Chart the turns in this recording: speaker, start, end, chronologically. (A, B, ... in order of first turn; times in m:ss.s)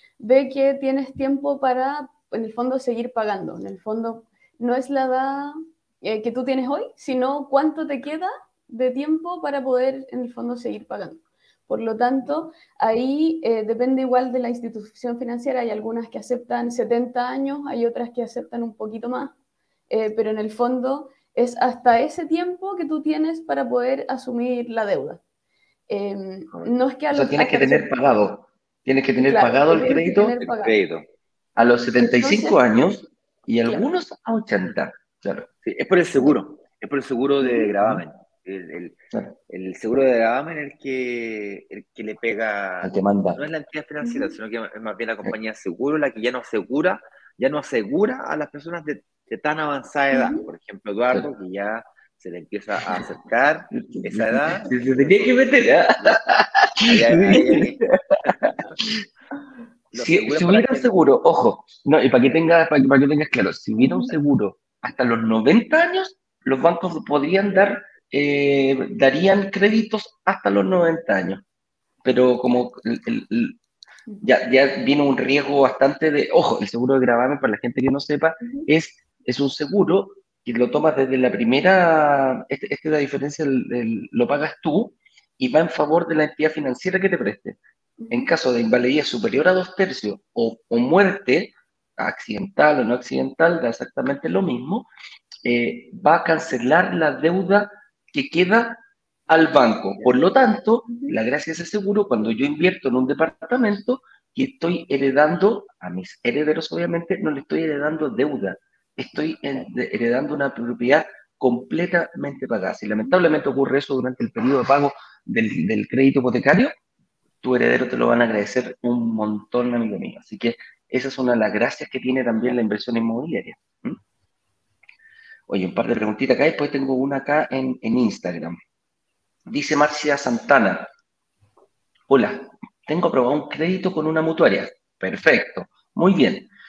0:00.2-0:19.4 A
0:19.9-0:25.2 A
0:25.9-0:27.9 A
0:26.5-0:30.4 B
0:29.2-0:30.8 A
0:30.5-0:31.1 C
0:31.6-0:35.5 B
0:32.0-0:32.6 A
0:35.6-0:39.0 C
0:37.4-0:37.7 A
0:39.5-0:56.2 C
0:42.8-0:43.4 B
0:44.0-0:44.3 A
0:50.1-0:50.4 A
0:53.8-0:57.9 B
0:56.8-0:58.7 C
0:58.4-0:59.0 B
0:59.9-1:01.0 C
0:59.9-1:11.4 B
1:03.8-1:04.1 A
1:12.0-1:13.6 B
1:14.2-1:27.6 B
1:18.4-1:18.7 A
1:28.0-1:28.3 A
1:28.1-1:34.9 B
1:35.4-1:56.7 B
1:40.9-1:41.1 A
1:57.4-2:04.0 B
2:05.5-2:08.6 B
2:09.5-2:10.9 B
2:12.1-2:16.5 B